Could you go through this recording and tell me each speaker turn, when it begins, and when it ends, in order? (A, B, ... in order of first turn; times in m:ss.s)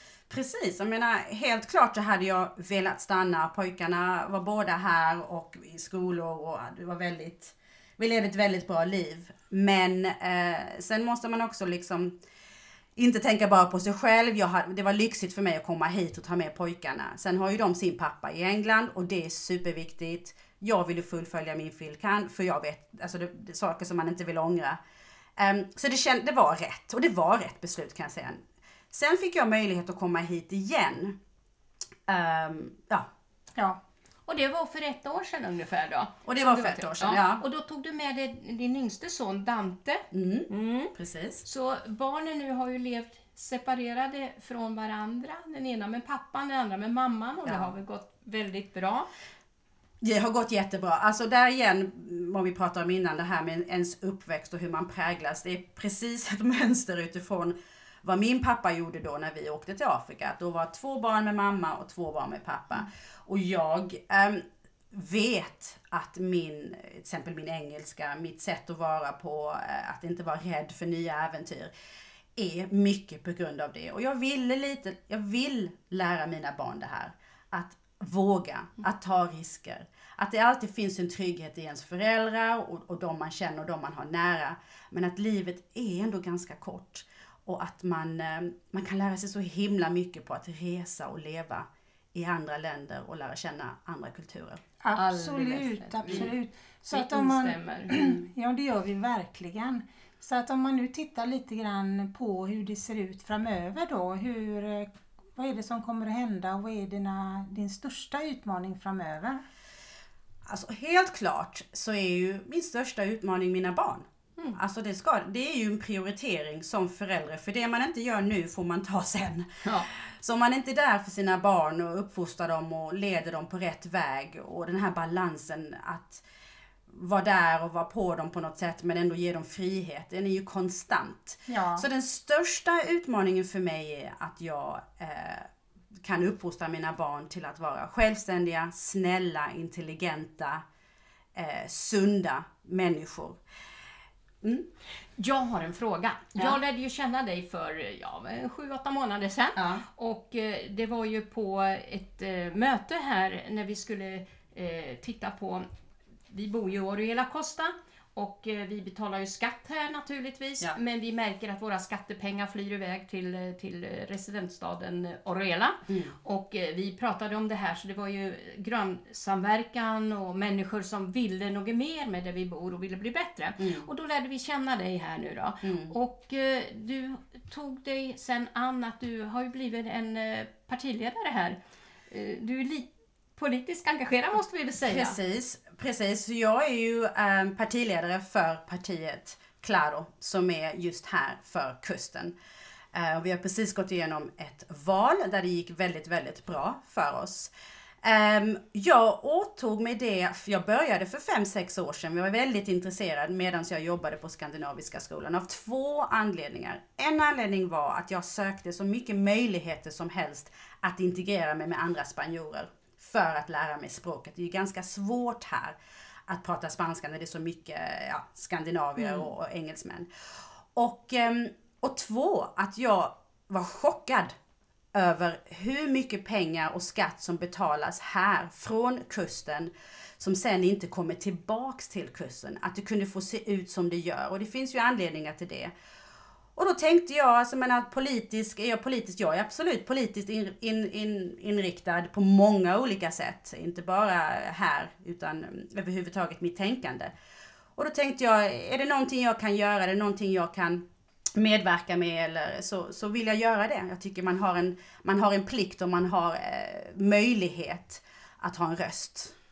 0:00.3-0:12.1 A
0:13.0-0:24.8 A
0:25.4-0:31.1 A
0:32.1-0:33.0 A
0:34.2-0:49.1 B
0:36.2-0:37.4 A
0:40.1-0:41.4 A
0:47.4-0:47.7 A
0:50.0-1:11.7 A
1:12.4-1:34.6 A
1:34.8-1:49.4 C
1:34.9-1:36.3 B
1:36.9-1:38.2 B
1:50.4-1:59.5 A
2:00.2-2:06.2 A
2:06.9-2:15.4 A
2:11.5-2:11.8 C
2:16.0-2:20.6 A
2:21.3-2:23.4 A
2:25.2-2:35.6 B
2:29.6-2:29.8 A
2:36.3-3:05.2 B
2:45.9-2:46.1 A
2:53.6-2:53.9 A
2:55.6-2:55.9 A
3:04.8-3:12.3 A
3:12.9-3:35.8 A
3:36.3-3:40.1 A
3:39.0-3:39.3 B
3:40.7-3:44.3 A
3:44.9-3:55.7 A
3:56.6-4:07.1 A
4:07.8-4:10.8 A
4:11.4-4:19.3 A